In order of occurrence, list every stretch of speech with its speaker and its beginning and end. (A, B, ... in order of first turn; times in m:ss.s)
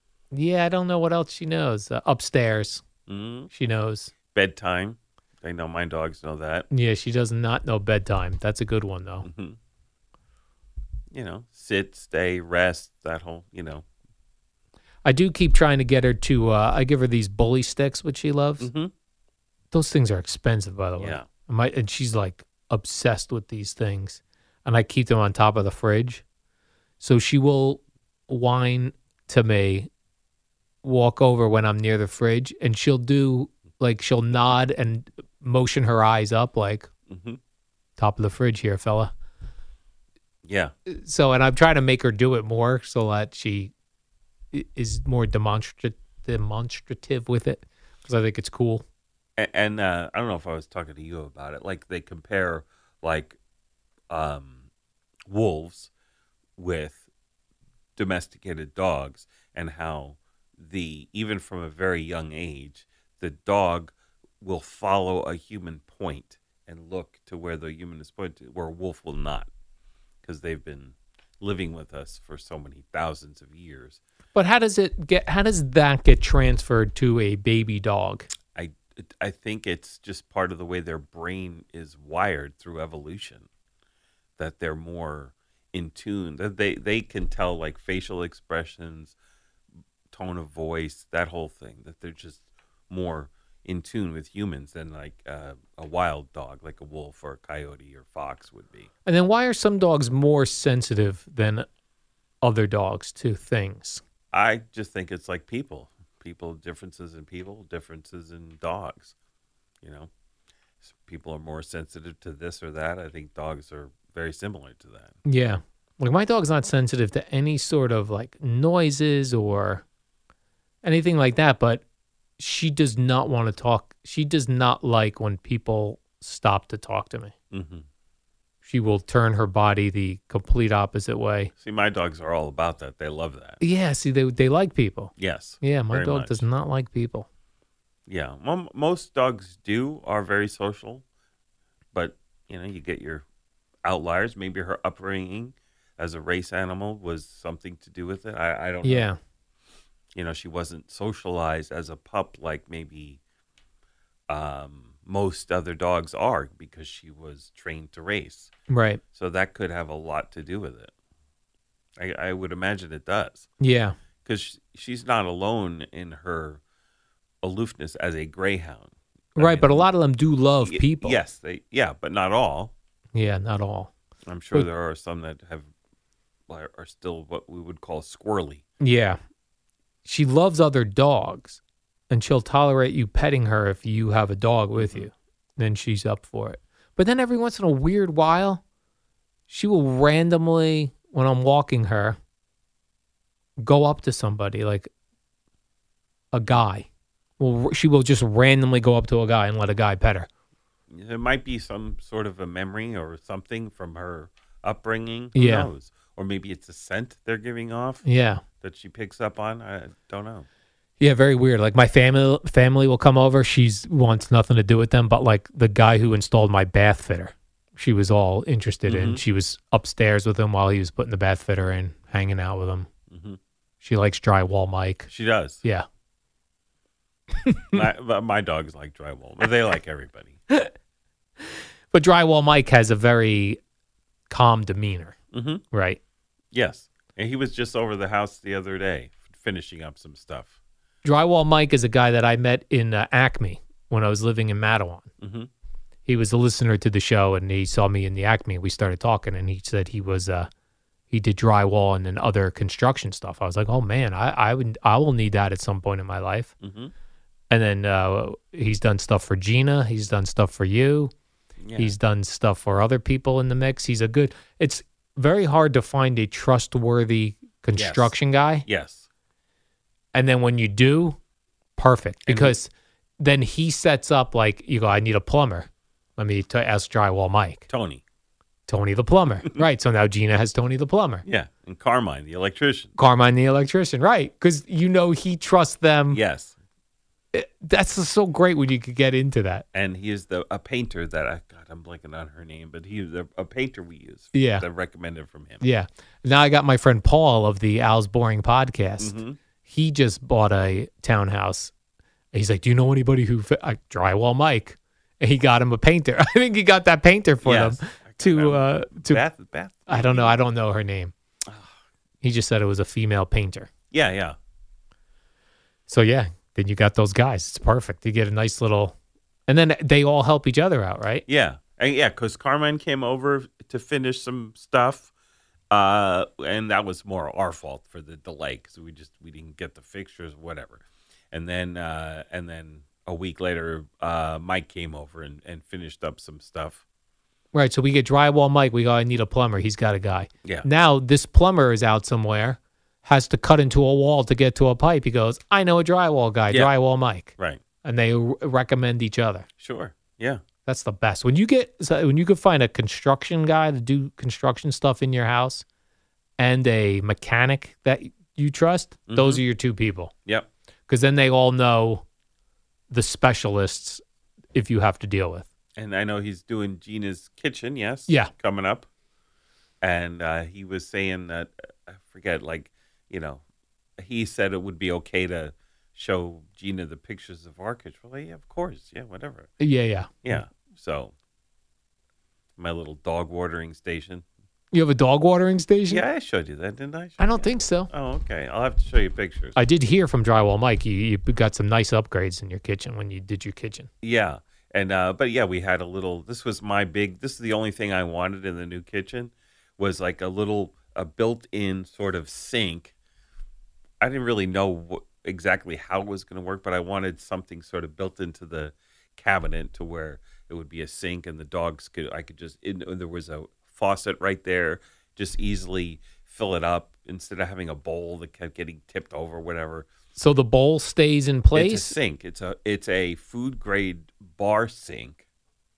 0:00.3-0:02.8 A
0:03.1-0:03.5 B
0:03.5-0:04.1 A
0:04.3-0:06.7 B
0:06.7-0:09.3 A
0:09.2-0:09.6 B
0:11.1-0:13.8 B
0:15.0-0:18.7 A
0:18.6-0:18.9 B
0:19.7-0:26.2 A
0:21.0-0:21.2 B
0:27.0-0:29.9 A
0:30.8-0:36.9 A
0:37.1-0:37.4 B
0:38.0-0:39.1 A
0:40.4-0:40.7 B
0:40.8-0:43.7 A
0:44.5-0:48.8 A
0:49.4-0:53.4 B
0:54.1-0:54.6 B
0:55.3-0:55.9 B
0:56.6-0:57.0 B
0:58.0-1:09.5 B
1:10.2-1:14.0 B
1:14.3-1:18.3 A
1:18.5-1:23.4 B
1:24.4-1:29.1 B
1:30.1-1:38.9 B
1:39.0-1:41.7 A
1:42.4-1:44.0 A
1:44.3-1:49.1 B
1:49.8-1:50.1 B
1:50.8-1:55.2 B
1:55.2-1:59.8 A
2:00.8-2:01.8 A
2:02.4-2:07.3 A
2:07.5-2:07.8 B
2:08.6-2:11.5 A
2:11.6-2:13.6 B
2:13.6-2:17.3 A
2:15.2-2:16.4 B
2:18.1-2:21.0 B
2:21.9-2:23.2 B
2:23.8-2:29.1 B
2:28.8-2:29.2 A
2:30.1-2:33.2 B
2:34.3-2:38.5 B
2:38.7-2:39.0 A
2:39.1-2:40.9 B
2:42.0-2:43.5 B
2:43.6-2:44.0 A
2:44.2-2:46.6 B
2:47.4-2:49.8 B
2:49.4-2:51.2 A
2:50.6-2:52.7 B
2:53.1-2:53.9 A
2:54.3-2:55.7 B
2:56.5-2:58.6 B
2:58.8-2:59.2 A
3:00.0-3:08.6 A
3:04.8-3:05.1 B
3:09.5-3:12.2 A
3:13.6-3:14.9 A
3:16.3-3:16.9 A
3:17.4-3:20.3 A
3:20.9-3:28.0 B
3:25.3-3:25.7 A
3:28.0-3:28.4 A
3:28.6-3:30.4 B
3:31.0-3:42.9 A
3:38.9-3:39.2 B
3:43.1-3:43.4 B
3:43.8-3:45.1 A
3:45.1-3:45.6 B
3:47.4-3:47.8 A
3:47.7-3:50.4 B
3:51.9-3:53.6 A
3:54.3-3:55.2 A
3:55.3-3:55.6 B
3:55.7-3:56.0 A
3:56.5-4:00.5 B
4:01.0-4:05.1 A
4:05.2-4:05.5 B
4:06.0-4:10.5 A
4:11.1-4:16.5 A
4:16.6-4:16.9 B
4:17.5-4:21.1 A
4:21.6-4:21.9 B
4:21.8-4:28.6 A
4:27.8-4:28.1 B
4:28.6-4:29.0 B
4:30.1-4:31.2 A
4:31.8-4:37.6 A
4:32.3-4:32.5 B
4:37.7-4:38.0 B
4:38.7-4:41.2 A
4:41.2-4:42.9 B
4:43.0-4:46.2 A
4:46.1-4:46.5 B
4:47.3-4:49.6 A
4:49.7-4:55.6 B
4:54.3-4:54.6 A
4:55.6-5:01.7 A
4:59.0-4:59.4 B
5:02.3-5:09.2 A
5:07.4-5:10.4 B
5:09.9-5:11.1 A
5:11.5-5:11.7 B
5:12.2-5:13.7 A
5:13.9-5:14.4 B
5:15.9-5:18.9 A
5:19.5-5:21.2 A
5:21.3-5:25.1 B
5:25.7-5:36.8 B
5:37.5-5:47.3 A
5:47.8-5:49.5 A
5:49.6-5:50.4 B
5:50.6-5:55.6 A
5:56.4-6:00.1 A
5:59.1-5:59.4 B
6:00.9-6:02.0 A
6:02.9-6:04.0 A
6:04.5-6:05.5 A
6:05.8-6:08.9 B
6:09.8-6:13.4 B
6:14.0-6:19.5 B
6:19.6-6:20.1 A
6:20.2-6:21.1 B
6:22.6-6:24.2 B
6:24.7-6:26.0 A
6:25.9-6:29.6 B
6:27.2-6:27.9 A
6:29.6-6:33.9 A
6:34.0-6:42.9 B
6:44.0-6:59.9 B
7:00.2-7:01.9 A
7:01.5-7:05.2 B